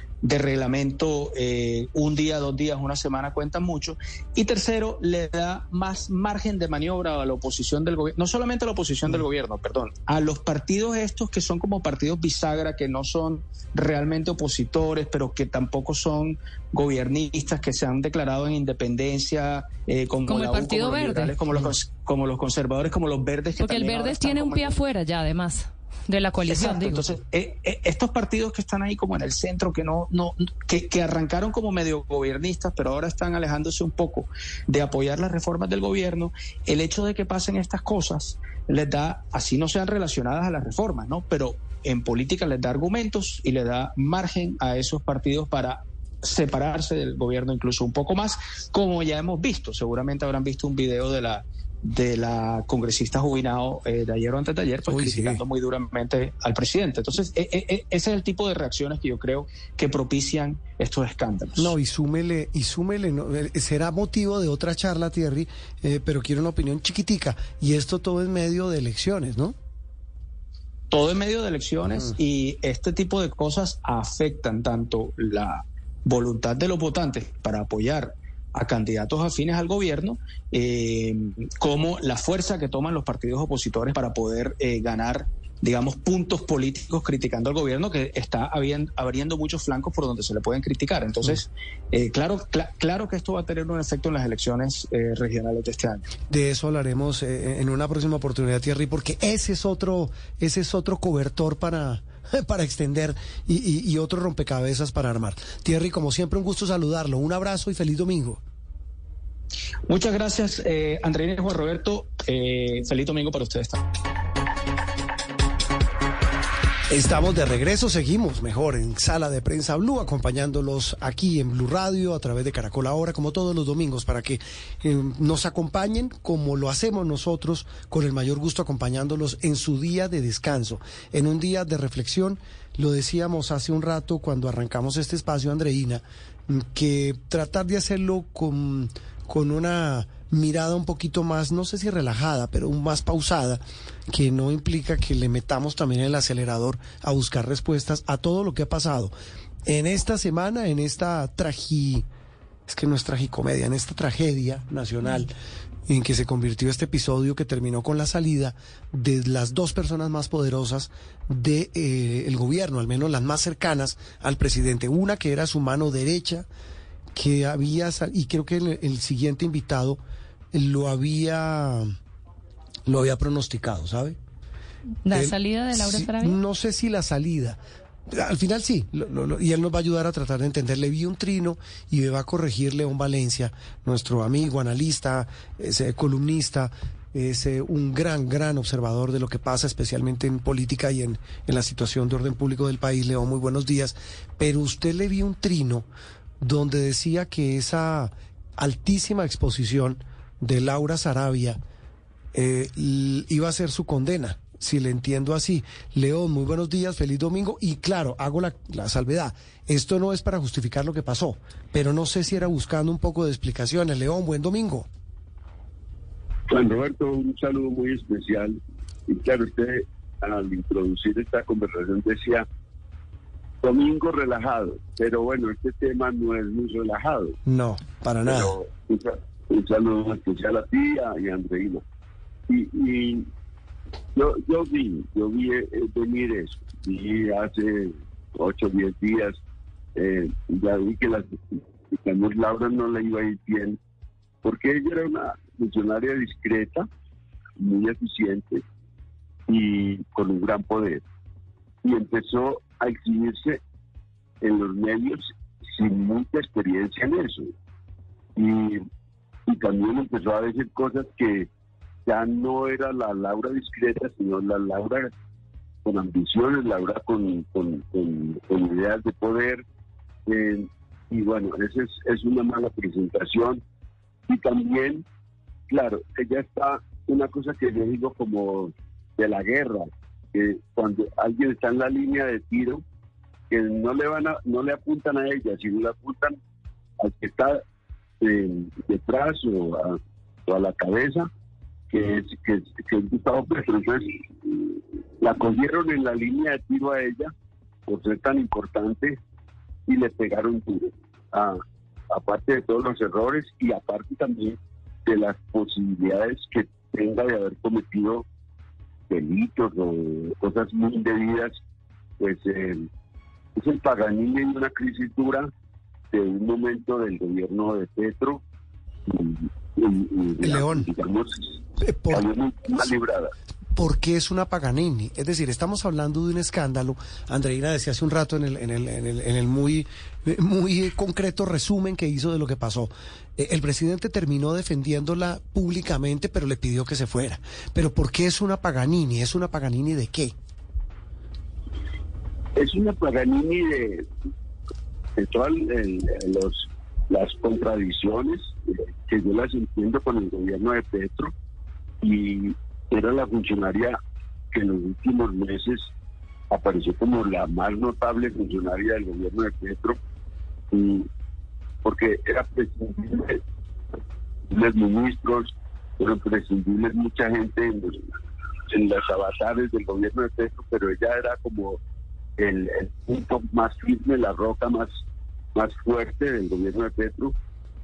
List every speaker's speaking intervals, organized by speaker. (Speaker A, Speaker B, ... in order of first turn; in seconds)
Speaker A: 0.2-24.8, 26.4-61.8, 70.9-96.1, 109.9-113.9
Speaker B: 20.3-21.4, 23.6-27.1, 175.1-176.4
Speaker C: 54.9-55.4, 61.6-69.5, 96.3-108.4, 116.9-149.1, 149.7-152.1, 152.7-155.3, 155.9-166.5, 167.1-170.0, 170.5-171.9, 172.9-174.2, 175.1-195.9, 196.4-201.6, 202.3-214.9, 227.5-228.6, 320.4-320.9, 321.8-322.3, 323.8-340.3
Speaker D: 216.5-222.5, 223.6-227.4, 228.3-231.8, 232.5-233.3, 234.1-239.4, 240.0-243.8, 244.4-246.9, 247.6-248.6, 249.5-251.0, 251.8-253.6, 254.4-257.5, 258.4-258.9, 259.5-261.5, 262.1-265.1, 265.8-269.6, 270.3-273.6, 274.3-275.0, 275.7-282.8, 283.5-286.4, 287.0-287.6, 288.2-291.3, 291.9-297.3, 297.9-299.2, 299.9-308.2, 309.1-311.6, 312.2-312.9, 313.6-315.5, 316.1-318.4, 319.1-321.6, 322.1-323.3, 342.6-344.1, 345.2-351.3, 352.0-354.0, 354.5-355.9, 356.5-360.0, 360.7-361.1, 361.9-363.4, 364.5-368.0, 368.7-371.8, 372.4-374.9, 375.6-377.4